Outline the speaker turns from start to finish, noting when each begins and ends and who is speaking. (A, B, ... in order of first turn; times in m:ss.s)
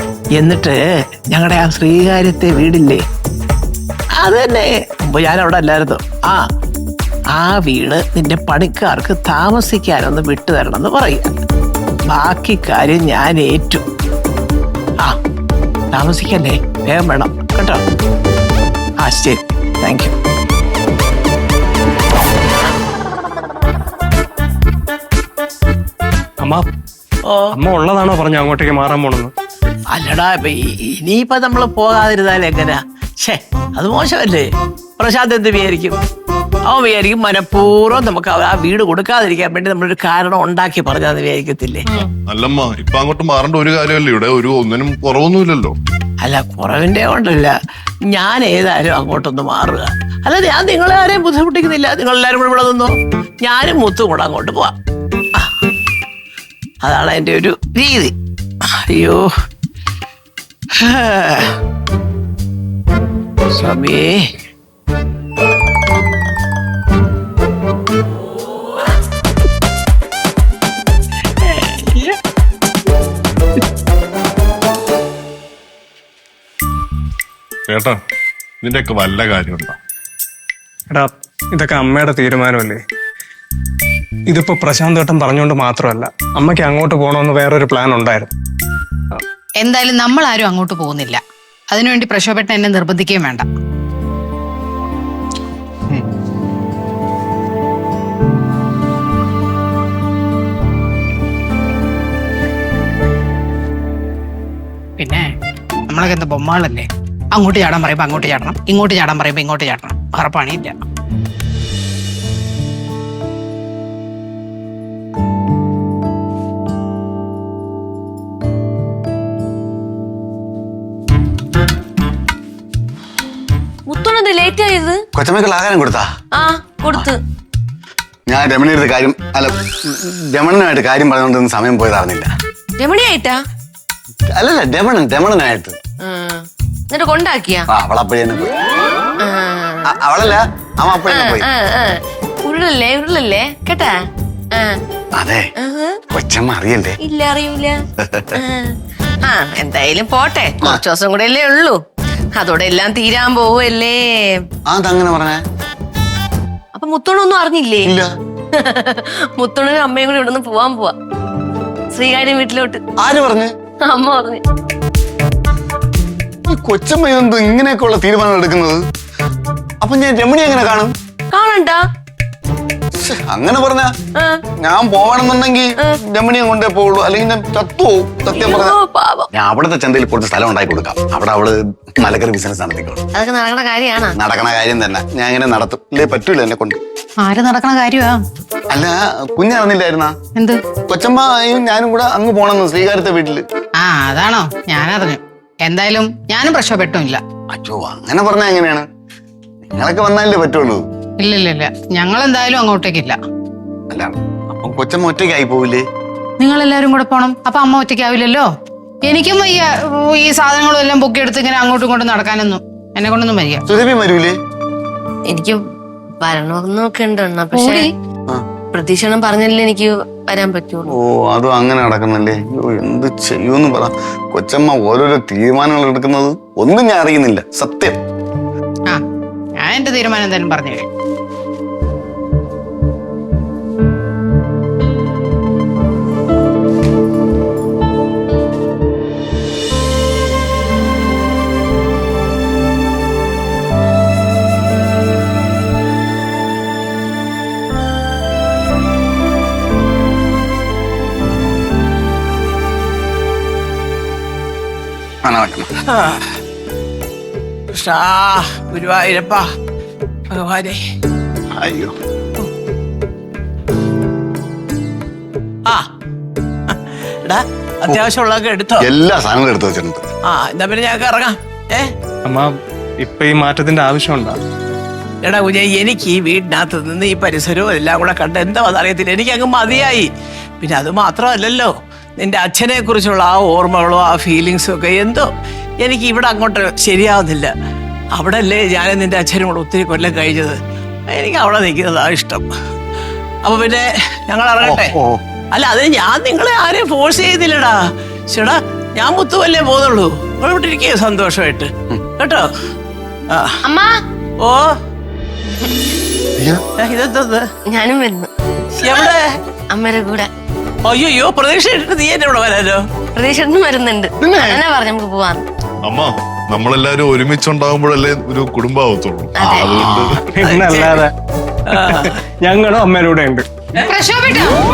0:00.4-0:00.8 A
0:01.3-0:03.0 A
0:04.2-0:06.4 A
0:07.4-0:11.4 A
0:12.1-0:13.8 A
0:15.9-0:17.8 A
0:19.0-0:20.1 A
0:27.5-0:29.3 B
0:29.9-0:36.0 A
0:36.7-0:41.9 A
0:42.3-0:45.8 C
0:46.2-0:47.6 A
0:48.1-0:54.8 A
0:56.8-0:58.1 A
0:58.9-0:59.3 A
1:00.8-1:01.5 A
1:03.5-1:04.2 A
1:11.4-1:12.2 A
1:17.7-1:18.0 C
1:18.6-1:19.8 C
1:20.9-1:22.8 B
1:24.3-1:28.3 B
1:29.6-1:33.4 D
1:45.0-1:45.3 D
1:45.9-1:50.8 D
2:03.9-2:05.0 E
2:05.2-2:06.0 F
2:06.4-2:07.2 E
2:08.3-2:12.3 F
2:12.8-2:13.4 E
2:14.3-2:15.8 F
2:16.0-2:17.7 E
2:17.7-2:18.6 F
2:19.2-2:19.9 E
2:19.9-2:21.5 F
2:21.1-2:24.0 E
2:24.5-2:24.8 E
2:25.2-2:25.4 F
2:25.6-2:26.0 E
2:26.1-2:27.0 F
2:27.0-2:27.8 E
2:28.0-2:28.3 F
2:28.4-2:31.8 E
2:32.4-2:34.5 E
2:34.7-2:35.4 F
2:36.8-2:37.9 E
2:38.5-2:41.0 E
2:41.9-2:42.8 E
2:43.0-2:43.5 F
2:43.9-2:44.4 E
2:46.5-2:48.8 F
2:49.8-2:50.9 F
2:51.3-2:51.8 E
2:53.0-2:53.9 F
2:54.2-2:54.4 E
2:54.6-2:58.8 F
2:58.3-2:59.3 E
2:59.3-3:03.0 F
3:03.2-3:04.2 E
3:04.2-3:06.8 F
3:07.2-3:08.2 D
3:08.7-3:10.1 F
3:10.9-3:13.4 F
3:13.8-3:17.2 D
3:17.5-3:18.8 F
3:19.7-3:20.8 F
3:21.2-3:23.2 D
3:23.9-3:25.8 F
3:26.4-3:28.5 D
3:29.1-3:33.6 D
3:33.7-3:34.4 F
3:35.3-3:35.6 E
3:36.2-3:37.9 E
3:37.6-3:37.8 D
3:38.7-3:40.9 E
3:40.9-3:47.9 F
3:49.6-3:50.8 D
4:15.2-4:15.7 F
4:15.9-4:16.2 A
4:17.7-4:19.4 A
4:20.3-4:20.8 A
4:21.6-4:21.9 F
4:26.7-4:28.8 A
4:28.8-4:30.0 F
4:30.3-4:31.9 A
4:32.2-4:34.4 B
4:35.2-4:40.1 A
4:40.6-4:45.3 A
4:45.8-4:47.5 A
4:48.1-4:50.6 A
4:51.1-4:52.5 A
4:53.4-4:54.9 A
4:54.6-4:55.2 F
4:55.5-4:57.8 A
4:58.3-5:02.5 A
5:03.3-5:03.6 A
5:03.7-5:04.0 E
5:04.4-5:04.7 A
5:06.8-5:07.5 A
5:07.7-5:08.3 E
5:08.8-5:09.4 A
5:08.8-5:09.1 E
5:09.7-5:10.3 E
5:10.9-5:12.8 A
5:13.2-5:15.4 E
5:15.9-5:20.2 C
5:19.4-5:19.7 E
5:19.4-5:20.2 F
5:20.3-5:21.1 B
5:20.4-5:21.0 A
5:21.7-5:23.5 B
5:21.7-5:22.1 A
5:23.8-5:24.6 D